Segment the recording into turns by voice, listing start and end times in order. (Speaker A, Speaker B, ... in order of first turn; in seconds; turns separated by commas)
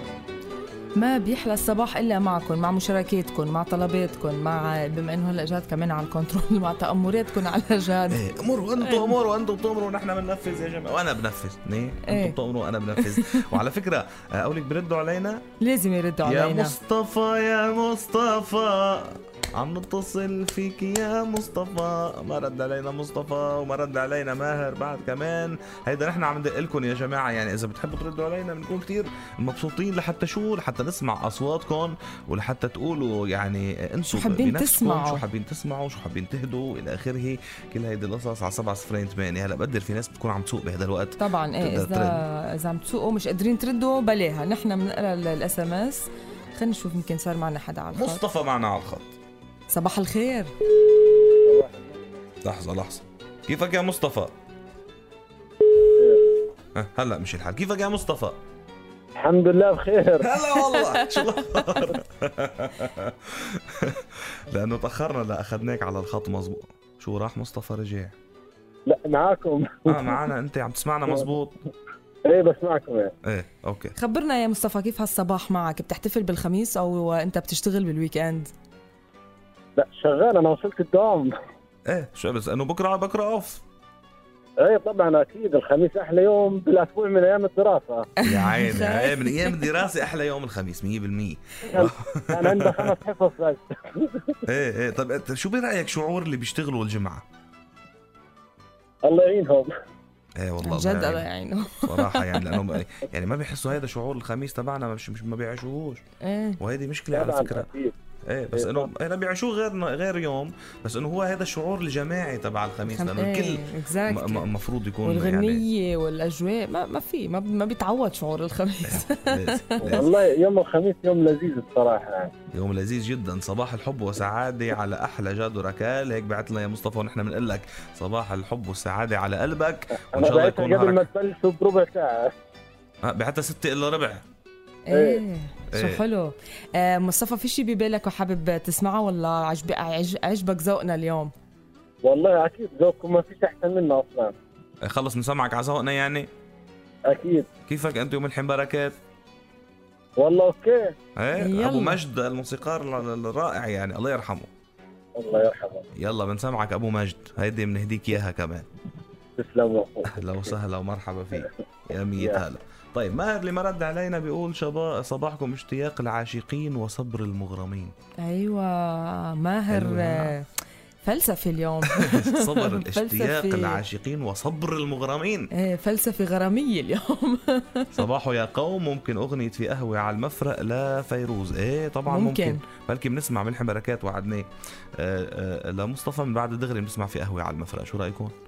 Speaker A: 0.9-8.2, Speaker B: 8.1-15.4, Speaker A: 8.8-9.2, Speaker A: 12.0-12.4, Speaker A: 13.0-13.5, Speaker A: 15.6-16.8, Speaker B: 16.2-42.2, Speaker A: 34.1-35.2, Speaker A: 41.2-48.2, Speaker B: 47.9-49.1, Speaker A: 49.7-50.5, Speaker C: 51.4-52.1, Speaker B: 52.4-54.3, Speaker C: 56.0-56.2, Speaker B: 56.7-58.4, Speaker C: 59.1-60.4, Speaker B: 60.2-68.2, Speaker C: 68.8-70.2, Speaker B: 69.8-71.5, Speaker C: 72.2-73.1, Speaker B: 73.2-73.9, Speaker A: 73.9-78.5, Speaker C: 79.8-81.3, Speaker B: 81.9-83.6, Speaker C: 84.6-88.1, Speaker A: 88.2-89.6, Speaker B: 88.2-92.9, Speaker C: 91.7-94.5, Speaker B: 94.5-97.2, Speaker C: 99.0-99.7, Speaker B: 100.4-101.3, Speaker A: 100.6-102.8, Speaker B: 101.8-106.0, Speaker A: 106.2-106.6, Speaker B: 106.6-107.7, Speaker C: 107.1-107.9, Speaker B: 108.3-115.7, Speaker C: 108.5-108.9, Speaker A: 112.8-120.0, Speaker B: 118.9-120.0, Speaker C: 119.8-122.3, Speaker B: 122.5-131.1, Speaker C: 129.9-132.3, Speaker B: 133.0-134.2, Speaker A: 134.9-141.3, Speaker C: 134.9-135.2, Speaker B: 135.7-136.0, Speaker C: 142.0-144.3, Speaker B: 144.8-146.3, Speaker C: 147.1-147.5, Speaker B: 147.7-148.9, Speaker C: 150.2-150.9, Speaker B: 151.2-154.5, Speaker A: 151.3-152.0, Speaker C: 155.2-155.8, Speaker B: 155.9-158.7, Speaker C: 159.4-160.5, Speaker B: 160.0-167.9, Speaker C: 162.2-162.4, Speaker A: 168.2-170.5, Speaker B: 169.7-170.4, Speaker A: 171.0-173.8, Speaker B: 171.9-175.5, Speaker A: 175.5-177.9, Speaker B: 177.9-188.3, Speaker A: 182.1-182.6